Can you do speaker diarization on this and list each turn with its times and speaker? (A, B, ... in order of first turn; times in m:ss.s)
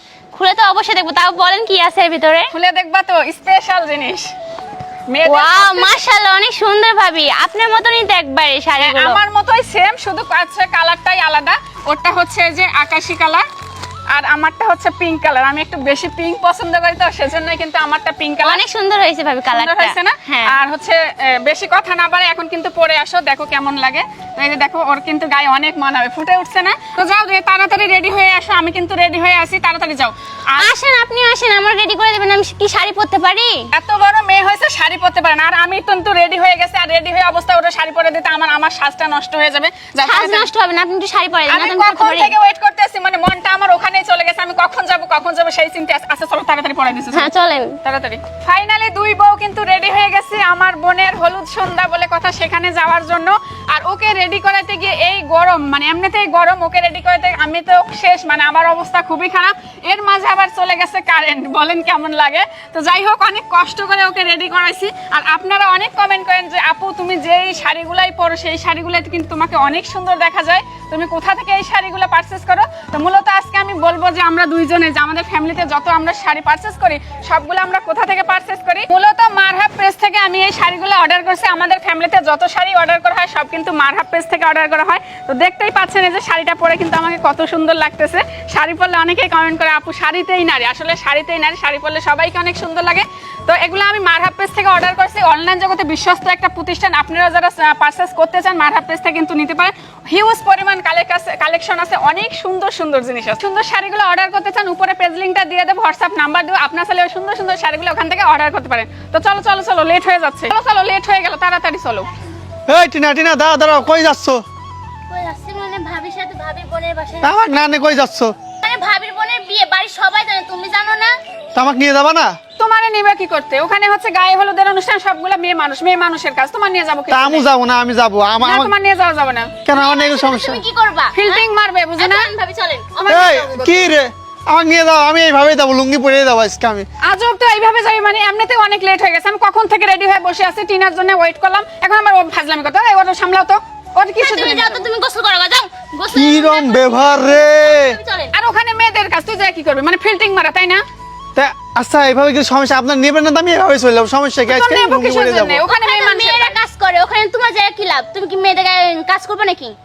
0:00.3-0:02.5 A
0:02.5-0:04.3 B
0:05.1-0:06.0 B
0:05.2-0:09.2 A
0:08.8-0:13.4 B
0:14.1-0:18.6 B
0:18.4-0:20.6 A
0:19.5-0:30.7 B
0:30.6-0:33.6 A
0:33.7-0:40.5 B
0:40.0-0:42.3 A
0:41.5-0:47.3 B
0:47.1-0:47.8 A
0:47.8-1:52.1 B
1:52.7-1:54.4 C
1:55.1-1:57.4 A
1:57.2-1:58.3 C
1:58.6-2:01.2 A
2:01.5-2:02.3 C
2:02.6-2:07.4 B
2:07.1-2:08.7 C
2:08.4-2:09.5 B
2:09.7-2:10.6 C
2:09.7-2:11.4 A
2:11.1-2:12.3 B
2:12.0-2:13.8 A
2:13.0-2:13.5 B
2:13.1-2:16.8 C
2:17.0-2:24.8 B
2:24.2-2:28.3 A
2:26.1-2:28.0 C
2:28.3-2:30.8 B
2:31.4-2:35.6 C
2:34.5-2:36.6 B
2:35.7-2:39.8 A